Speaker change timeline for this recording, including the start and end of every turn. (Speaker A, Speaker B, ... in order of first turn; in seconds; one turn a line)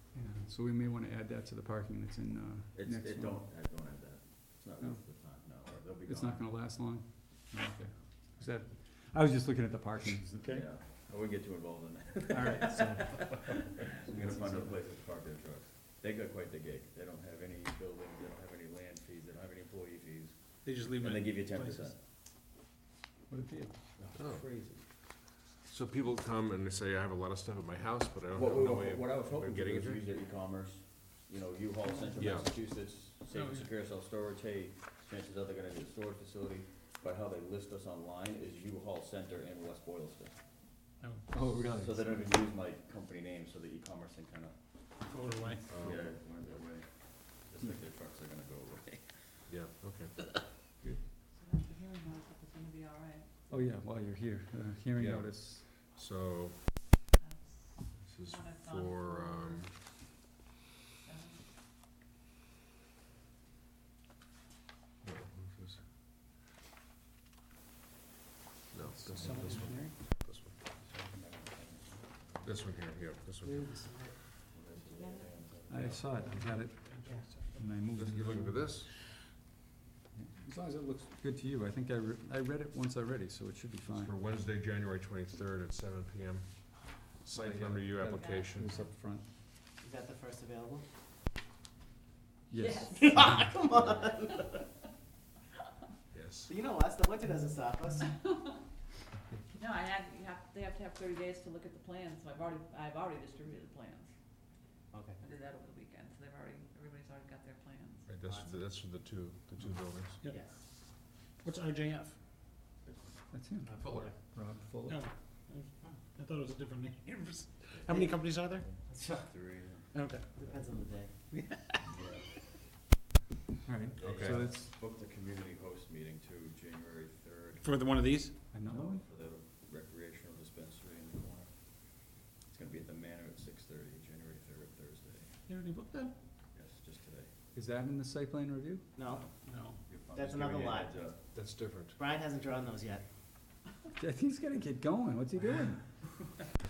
Speaker A: 0.1-3.4
Speaker B: 2.7-6.5
Speaker A: 6.1-10.7
Speaker B: 10.4-22.0
Speaker A: 12.3-14.8
Speaker C: 20.6-21.9
Speaker A: 23.3-23.8
Speaker B: 24.0-24.4
Speaker D: 24.1-24.4
Speaker A: 24.3-24.8
Speaker D: 25.6-30.0
Speaker B: 28.3-40.4
Speaker A: 31.9-32.3
Speaker D: 32.2-32.5
Speaker C: 33.3-33.7
Speaker C: 41.0-41.5
Speaker A: 41.3-42.3
Speaker B: 41.7-45.0
Speaker C: 45.0-45.7
Speaker D: 45.7-46.0
Speaker B: 45.7-49.5
Speaker D: 49.5-50.4
Speaker E: 51.3-53.5
Speaker A: 53.5-55.6
Speaker D: 55.0-56.6
Speaker E: 57.2-59.6
Speaker D: 58.0-59.8
Speaker E: 61.0-61.4
Speaker D: 65.0-65.8
Speaker D: 68.7-70.5
Speaker A: 68.9-69.9
Speaker C: 69.2-69.9
Speaker B: 70.8-72.5
Speaker D: 72.4-73.7
Speaker F: 73.4-74.4
Speaker B: 74.5-76.3
Speaker E: 74.9-75.3
Speaker A: 75.7-78.6
Speaker C: 76.2-77.6
Speaker D: 77.9-78.9
Speaker A: 80.1-84.1
Speaker D: 83.9-88.8
Speaker A: 87.3-89.3
Speaker E: 88.1-88.9
Speaker F: 89.8-90.8
Speaker A: 92.5-93.3
Speaker E: 92.6-93.6
Speaker F: 93.0-94.6
Speaker D: 96.1-96.5
Speaker F: 96.5-98.3
Speaker E: 98.1-98.5
Speaker E: 99.5-104.1
Speaker F: 104.9-105.2
Speaker E: 105.2-108.1
Speaker D: 108.0-110.2
Speaker F: 108.2-108.5
Speaker F: 110.3-110.7
Speaker C: 111.4-112.2
Speaker B: 112.8-113.3
Speaker A: 113.3-115.0
Speaker C: 113.6-118.7
Speaker D: 113.8-114.1
Speaker B: 117.7-120.0
Speaker F: 117.9-119.5
Speaker C: 119.9-120.3
Speaker F: 120.1-121.2
Speaker C: 121.3-121.8
Speaker B: 121.9-122.3
Speaker A: 123.6-124.7
Speaker D: 124.0-124.5
Speaker B: 124.0-127.9
Speaker C: 127.6-128.5
Speaker A: 128.5-129.0
Speaker B: 128.5-135.4
Speaker C: 135.5-136.1
Speaker B: 136.5-137.3
Speaker A: 137.5-138.8
Speaker F: 138.9-139.2
Speaker B: 139.1-141.3
Speaker C: 139.4-139.8
Speaker F: 140.1-140.9
Speaker D: 141.3-142.0
Speaker F: 142.0-143.0
Speaker A: 144.0-146.3